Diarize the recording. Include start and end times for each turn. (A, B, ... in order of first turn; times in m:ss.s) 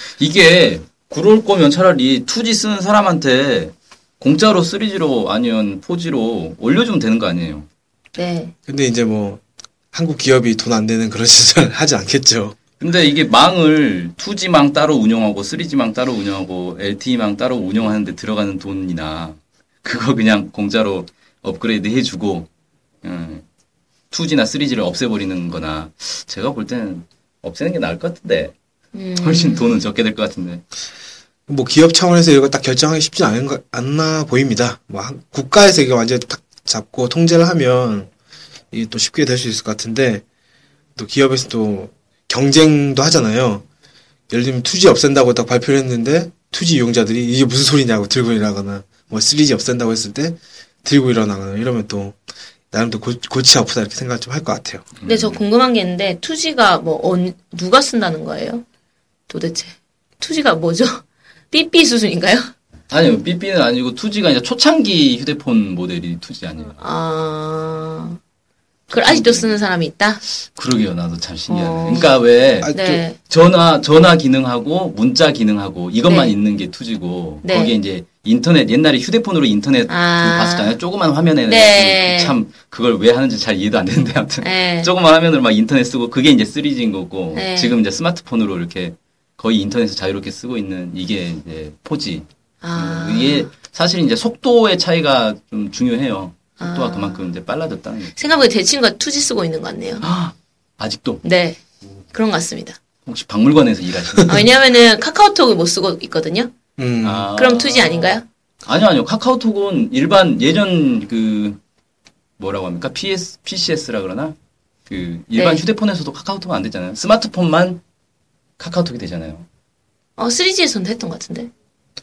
0:00.2-0:07.7 A
0:08.2-0:08.5 B
0:08.7-0:12.6 C
0:12.8-0:22.5 A
0:23.0-0:23.4 A
0:24.1-0:28.5 A
0:28.9-0:29.8 B
0:29.2-0:30.6 A
0:31.5-0:38.1 C
0:38.7-0:40.2 C
0:41.0-0:43.6 C
0:44.3-0:52.2 C
0:52.7-0:54.9 C
0:55.0-0:55.4 A
0:55.0-0:58.6 B
0:59.3-1:02.5 B
1:02.9-1:06.8 A
1:06.8-1:08.2 B
1:08.9-1:10.2 B
1:08.9-1:09.6 A
1:10.5-1:38.4 A
1:11.5-1:12.1 B
1:12.6-1:13.0 C
1:12.7-1:13.2 B
1:16.1-1:16.3 B
1:17.4-1:17.7 B
1:19.9-1:20.8 B
1:21.4-1:22.4 B
1:24.4-1:24.9 B
1:27.3-1:27.8 B
1:32.6-1:33.5 B
1:36.6-1:37.3 B
1:38.2-1:40.0 B
1:40.0-1:41.2 A
1:41.2-1:41.6 B
1:42.1-1:42.8 B
1:43.0-1:44.4 A
1:44.2-1:46.5 B
1:46.8-1:47.3 C
1:47.0-1:51.6 A
1:47.3-1:48.2 B
1:52.4-1:54.4 A
1:54.9-1:57.8 A
1:55.3-1:55.6 B
1:58.6-1:59.4 A
2:00.2-2:01.5 B